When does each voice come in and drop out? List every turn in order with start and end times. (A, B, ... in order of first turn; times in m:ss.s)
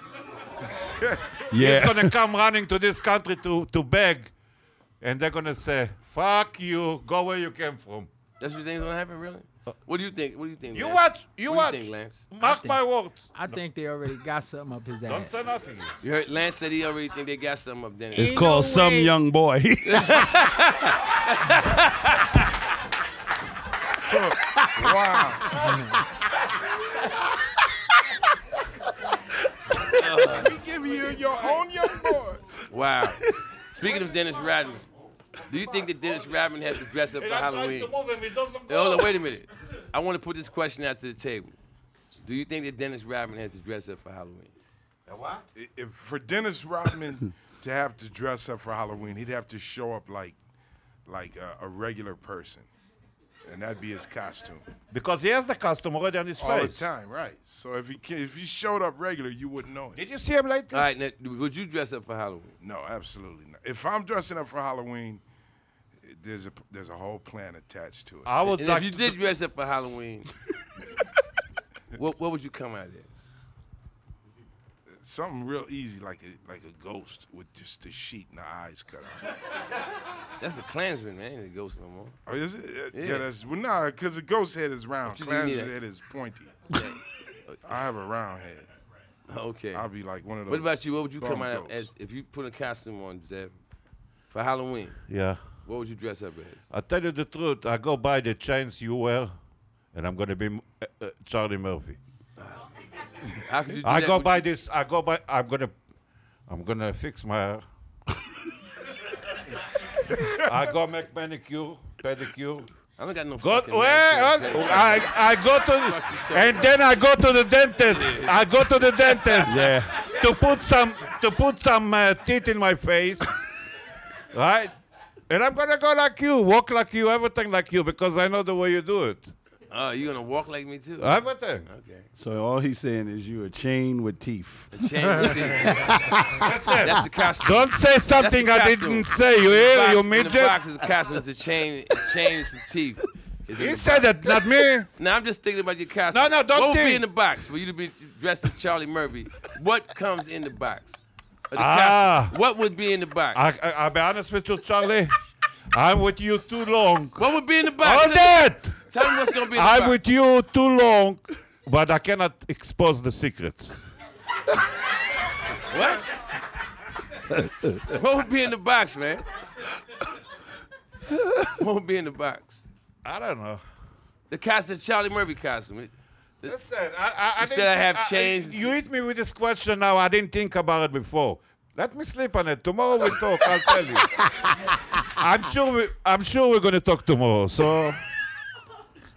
0:01.0-0:01.3 A
0:01.5-0:02.2 B
0:01.5-0:04.3 C
0:05.0-0:08.1 C
0:08.4-0:12.3 D
0:10.7-0:13.6 C
0:12.4-0:12.8 E
0:13.3-0:15.4 E
0:15.1-0:15.9 C
0:16.0-0:18.5 D
0:18.2-0:20.5 B
0:18.2-0:19.2 E
0:19.8-0:22.4 D
0:24.0-0:25.6 A
0:24.4-0:25.0 B
0:25.6-0:26.0 B
0:29.9-0:30.5 D
0:30.3-0:32.5 A
0:32.7-0:34.8 D
0:35.5-0:37.9 D
0:35.5-0:36.5 C
0:37.1-0:39.2 C
0:38.7-0:41.6 D
0:42.2-0:44.5 D
0:45.1-0:45.4 C
0:45.6-0:50.4 A
0:51.1-0:52.7 A
0:53.4-0:54.7 A
0:54.9-0:56.8 C
0:56.4-1:00.0 A
1:00.0-1:00.9 C
1:00.7-1:02.6 D
1:02.6-1:05.2 A
1:06.0-1:08.4 A
1:08.3-1:09.2 C
1:08.5-1:10.3 D
1:12.0-1:13.3 D
1:14.9-1:19.4 A
1:20.4-1:22.2 D
1:22.3-1:26.8 A
1:22.9-1:23.3 D
1:25.1-1:25.7 D
1:26.7-1:27.6 D
1:27.6-1:28.7 A
1:29.3-1:29.9 D
1:29.7-1:31.9 A
1:30.5-1:33.5 D
1:34.3-1:35.0 D
1:35.1-1:35.4 C
1:35.6-1:36.6 D
1:36.7-1:39.4 C
1:39.9-1:42.0 C
1:42.4-1:44.5 D
1:43.8-1:45.7 C
1:46.5-1:47.6 C
1:50.3-1:52.7 C
1:53.0-1:56.9 D
1:53.4-2:03.4 C
1:57.8-1:58.5 D
1:59.0-1:59.5 D
1:59.4-2:00.1 B
2:04.3-2:04.7 C
2:05.3-2:09.3 C
2:09.7-2:12.1 D
2:11.0-2:11.7 C
2:12.2-2:14.8 B
2:14.7-2:16.1 D
2:15.2-2:15.8 C
2:15.7-2:16.6 B
2:16.4-2:20.6 C
2:16.8-2:24.2 D
2:23.5-2:24.9 C
2:25.0-2:33.4 D
2:26.1-2:27.0 C
2:31.6-2:32.4 C
2:33.3-2:35.2 C
2:35.7-2:38.8 C
2:37.2-2:40.0 D
2:39.5-2:43.8 C
2:45.6-2:46.1 D
2:47.9-2:49.2 D
2:51.1-2:51.5 B
2:51.6-2:52.6 D
2:53.0-2:53.6 C
2:54.3-2:56.6 D
2:56.4-3:04.3 C
2:57.4-2:58.7 D
3:05.1-3:08.0 C